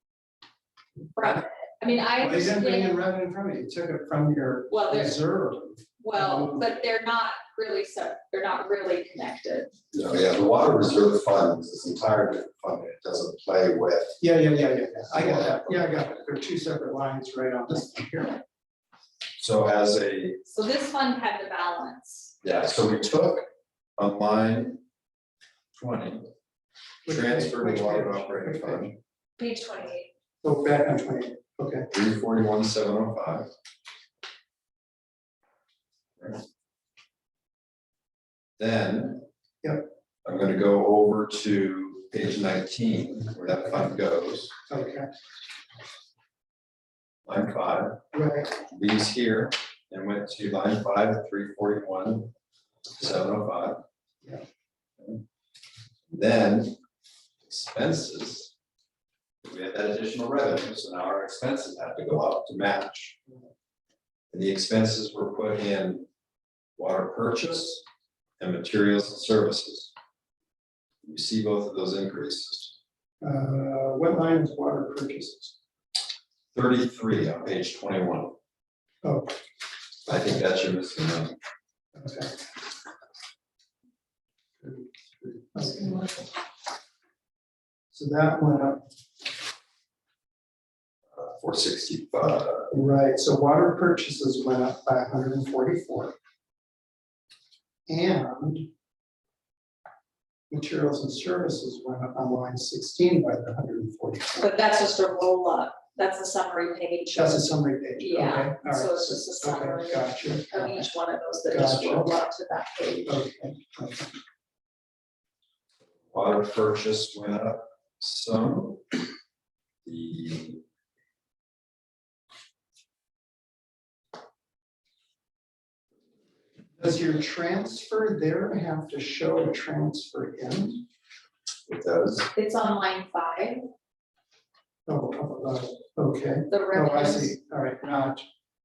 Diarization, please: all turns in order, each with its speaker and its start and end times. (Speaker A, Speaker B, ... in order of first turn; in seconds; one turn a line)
Speaker A: 1.2-3.0
Speaker B: 2.2-6.7
Speaker A: 4.7-5.2
Speaker A: 6.0-9.7
Speaker C: 9.9-14.2
Speaker B: 14.2-18.4
Speaker C: 15.2-15.8
Speaker C: 19.4-20.4
Speaker A: 20.5-22.3
Speaker C: 22.4-23.5
Speaker C: 24.0-24.8
Speaker C: 25.8-26.3
Speaker B: 27.1-28.9
Speaker C: 27.1-29.0
Speaker A: 29.4-30.1
Speaker B: 30.4-31.9
Speaker C: 31.9-33.5
Speaker C: 38.6-39.2
Speaker B: 39.6-39.9
Speaker C: 40.2-44.5
Speaker B: 44.7-45.1
Speaker C: 47.3-52.3
Speaker B: 48.1-48.5
Speaker C: 53.0-53.8
Speaker C: 56.1-56.8
Speaker C: 57.4-58.5
Speaker C: 59.4-63.2
Speaker C: 64.3-66.1
Speaker C: 66.8-67.8
Speaker C: 68.4-69.9
Speaker C: 71.0-72.8
Speaker B: 73.2-75.5
Speaker C: 76.5-78.3
Speaker B: 79.0-79.3
Speaker C: 80.1-81.4
Speaker B: 82.0-82.3
Speaker B: 84.6-86.0
Speaker B: 87.9-88.8
Speaker C: 91.1-92.7
Speaker B: 92.7-96.2
Speaker B: 97.9-98.7
Speaker B: 100.5-104.5
Speaker A: 104.4-107.4
Speaker B: 107.2-110.8
Speaker A: 108.0-113.2
Speaker B: 111.5-112.1
Speaker B: 113.1-114.1
Speaker C: 116.1-119.0
Speaker C: 119.8-120.6
Speaker B: 126.8-130.8
Speaker C: 131.7-132.3
Speaker A: 132.3-133.7
Speaker B: 134.9-138.2
Speaker A: 136.5-137.3